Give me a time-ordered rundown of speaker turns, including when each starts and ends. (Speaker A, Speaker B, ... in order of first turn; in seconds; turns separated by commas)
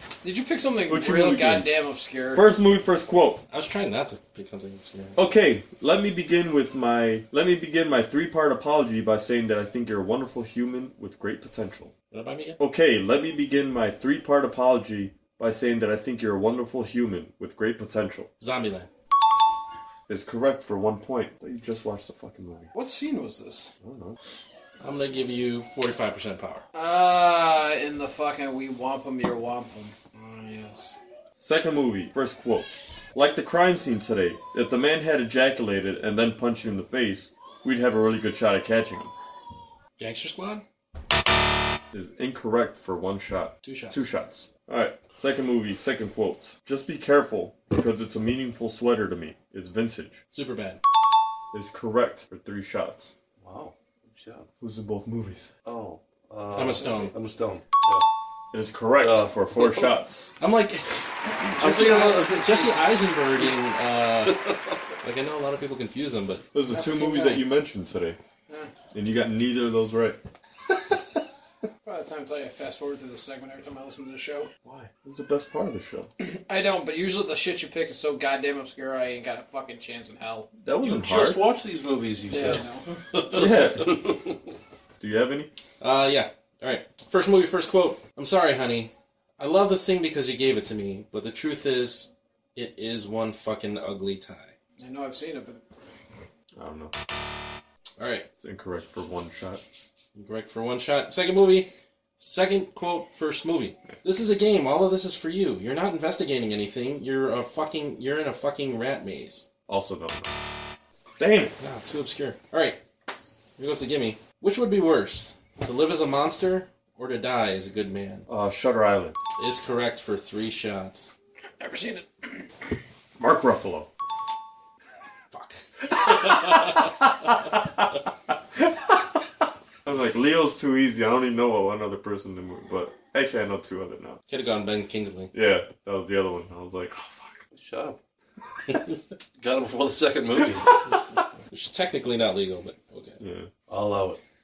Speaker A: 0.2-2.5, Speaker B: 0.9-1.7, Speaker B: 2.3-3.4, Speaker C: 3.5-5.2, Speaker B: 5.1-11.9, Speaker C: 12.1-12.6, Speaker B: 12.6-18.3, Speaker C: 18.4-18.9, Speaker B: 20.1-22.7, Speaker A: 22.7-23.7, Speaker B: 23.8-24.2, Speaker C: 24.8-26.6, Speaker A: 26.7-31.0, Speaker B: 31.4-39.1, Speaker C: 40.0-40.6, Speaker B: 41.9-50.2, Speaker C: 43.6-44.0, Speaker C: 50.3-50.8, Speaker B: 51.5-53.1, Speaker D: 53.4-54.5, Speaker B: 54.6-55.5, Speaker D: 55.6-58.0, Speaker C: 56.5-57.1, Speaker A: 56.8-57.1, Speaker B: 58.5-60.3, Speaker D: 59.0-59.9, Speaker C: 60.4-64.4, Speaker D: 61.6-63.5, Speaker D: 64.2-64.8, Speaker C: 65.0-66.5, Speaker B: 66.5-68.2, Speaker A: 66.7-67.4, Speaker B: 68.9-70.2, Speaker B: 70.7-71.0, Speaker A: 71.8-74.5, Speaker B: 74.6-76.1, Speaker A: 76.2-80.5, Speaker B: 80.6-81.4, Speaker D: 80.8-84.4, Speaker A: 82.3-82.9, Speaker B: 83.3-84.0, Speaker B: 85.0-85.5, Speaker C: 85.8-94.5, Speaker A: 94.8-95.7, Speaker B: 96.5-96.9, Speaker C: 98.0-98.3, Speaker B: 98.4-99.6, Speaker C: 100.1-109.5, Speaker B: 109.7-110.3, Speaker B: 111.1-111.5, Speaker C: 111.6-112.8, Speaker C: 113.6-118.2, Speaker B: 118.3-119.2, Speaker C: 119.4-121.1, Speaker A: 121.6-122.4, Speaker B: 123.2-123.9, Speaker C: 125.3-126.8, Speaker B: 126.1-127.9, Speaker B: 128.6-129.2, Speaker B: 129.8-134.2, Speaker C: 134.3-135.3, Speaker B: 135.3-137.4, Speaker D: 137.5-138.0, Speaker D: 139.4-140.8, Speaker C: 141.5-143.2, Speaker B: 143.2-143.5, Speaker D: 143.7-144.2